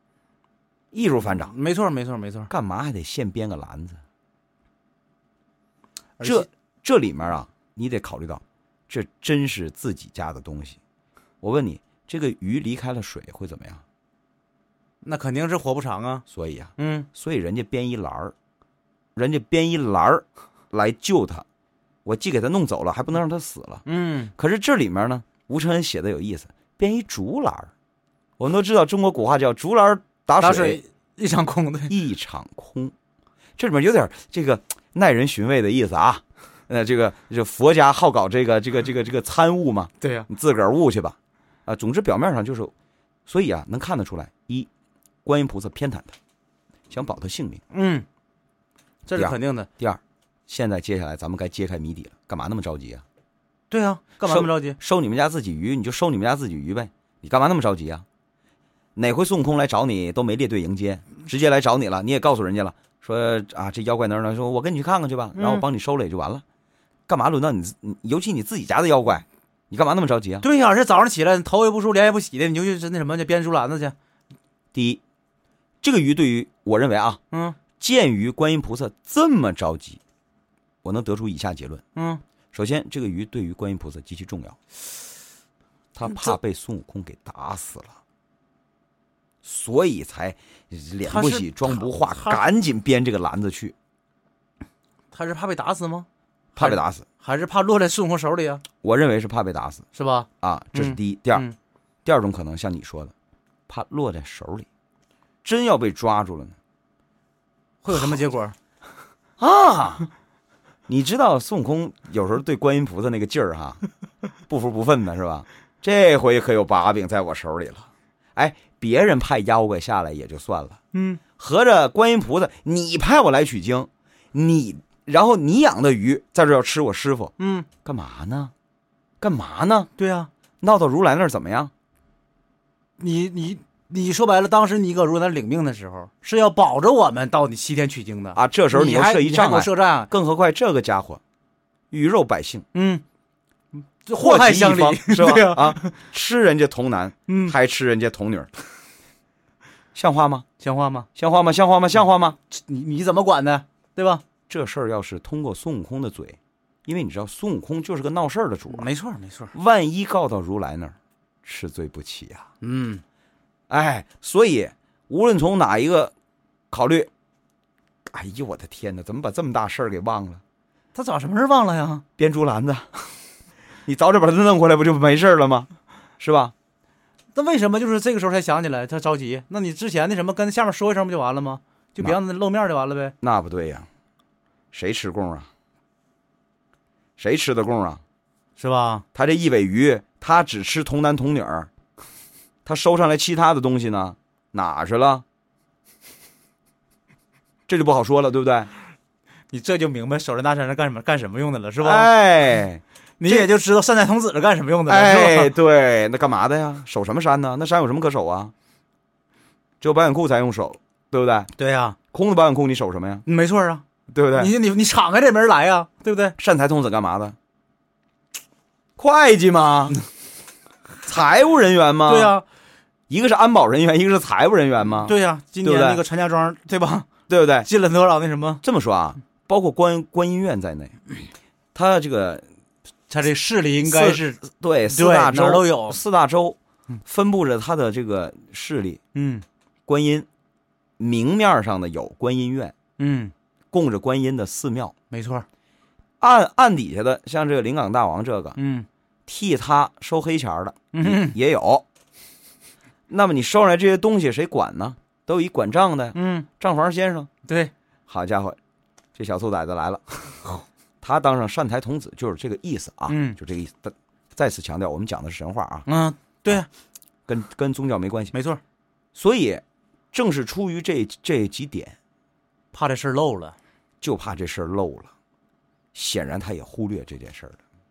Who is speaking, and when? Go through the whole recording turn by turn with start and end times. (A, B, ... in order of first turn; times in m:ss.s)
0:00.9-0:01.5 A
0:01.3-0:02.5 B
0:02.5-0:04.0 A
0:06.2-0:06.5 B
0:06.2-0:10.8 A
0:11.4-0:13.8 A
0:15.0-0:16.2 B
0:16.3-0:18.3 A
0:16.8-0:17.1 B
0:19.2-0:21.4 A
0:22.0-0:23.8 A
0:23.8-0:24.3 B
0:24.4-0:27.7 A
0:28.4-0:30.8 A
0:30.4-0:31.9 B
0:31.9-0:32.9 A
0:33.6-0:42.7 A
0:40.0-0:40.3 B
0:43.3-0:44.7 A
0:45.2-0:46.2 A
0:46.9-0:47.6 A
0:47.7-0:48.0 B
0:49.1-0:49.7 B
0:49.1-0:53.0 A
0:53.7-0:54.8 B
0:54.2-0:58.0 A
0:59.0-1:06.4 A
1:05.3-1:05.6 B
1:07.1-1:10.4 A
1:10.4-1:13.9 B
1:14.7-1:15.0 A
1:15.8-1:17.2 A
1:17.3-1:17.6 B
1:17.8-1:20.0 A
1:20.8-1:21.8 A
1:22.0-1:22.2 B
1:22.5-1:24.6 A
1:26.0-1:28.0 A
1:29.4-1:33.7 A
1:31.0-1:32.4 B
1:35.1-1:38.6 B
1:36.6-1:37.0 A
1:38.8-1:39.8 A
1:39.9-1:41.5 B
1:40.4-1:41.4 A
1:42.0-1:43.1 A
1:43.7-1:44.7 A
1:45.4-1:46.6 A
1:47.8-1:48.6 B
1:47.9-1:48.2 A
1:49.4-1:50.1 A
1:50.9-1:53.8 A
1:54.5-2:00.8 A
2:00.9-2:01.2 B
2:01.4-2:07.3 A
2:07.4-2:07.7 B
2:07.8-2:08.5 A
2:09.2-2:09.9 A
2:10.0-2:10.3 B
2:10.6-2:11.7 A
2:13.0-2:20.1 B
2:18.3-2:21.2 A
2:21.9-2:22.6 A
2:22.7-2:23.0 B
2:24.0-2:25.9 B
2:24.1-2:28.5 A
2:27.3-2:27.5 B
2:29.9-2:30.4 A
2:30.6-2:31.1 B
2:31.2-2:32.4 A
2:32.5-2:34.2 B
2:34.5-2:38.9 A
2:38.7-2:39.5 B
2:39.5-2:42.5 A
2:42.6-2:43.0 B
2:43.7-2:46.1 A
2:46.7-2:47.1 A
2:48.0-2:50.4 A
2:50.9-2:52.0 B
2:52.2-2:53.1 A
2:53.8-2:56.5 A
2:57.3-3:03.1 B
3:03.2-3:03.9 A
3:04.7-3:05.5 A
3:07.2-3:08.0 A
3:08.6-3:09.0 B
3:09.1-3:11.7 A
3:12.6-3:15.2 A
3:17.7-3:18.7 A
3:19.5-3:22.1 B
3:21.8-3:23.5 A
3:23.2-3:25.5 B
3:24.9-3:28.5 A
3:29.8-3:31.5 A
3:31.6-3:32.0 B
3:32.1-3:33.2 A
3:33.2-3:33.8 B
3:34.1-3:34.5 A
3:34.4-3:36.4 B
3:36.4-3:37.4 A
3:39.0-3:40.0 A
3:41.0-3:42.4 A
3:42.0-3:42.4 B
3:43.1-3:46.0 A
3:45.0-3:47.1 B
3:47.3-3:47.7 A
3:47.6-3:48.6 B
3:48.6-3:51.0 A
3:51.7-3:52.4 A
3:53.1-3:54.4 B
3:53.8-3:59.0 A
3:54.9-3:56.0 B
3:59.1-3:59.4 B
3:59.9-4:00.3 A
4:01.0-4:02.7 A
4:03.0-4:03.3 B
4:03.7-4:04.9 A
4:05.1-4:05.4 B
4:06.2-4:08.6 A
4:08.6-4:08.8 B
4:09.3-4:11.8 A
4:10.9-4:11.3 B
4:13.1-4:17.3 A
4:16.1-4:16.5 B
4:17.4-4:17.7 B
4:18.1-4:18.6 A
4:19.1-4:25.9 A
4:23.1-4:23.4 B
4:25.8-4:26.7 B
4:27.3-4:28.3 A
4:28.3-4:28.6 B
4:29.1-4:32.0 A
4:32.7-4:33.6 B
4:34.0-4:35.1 A
4:35.9-4:37.6 A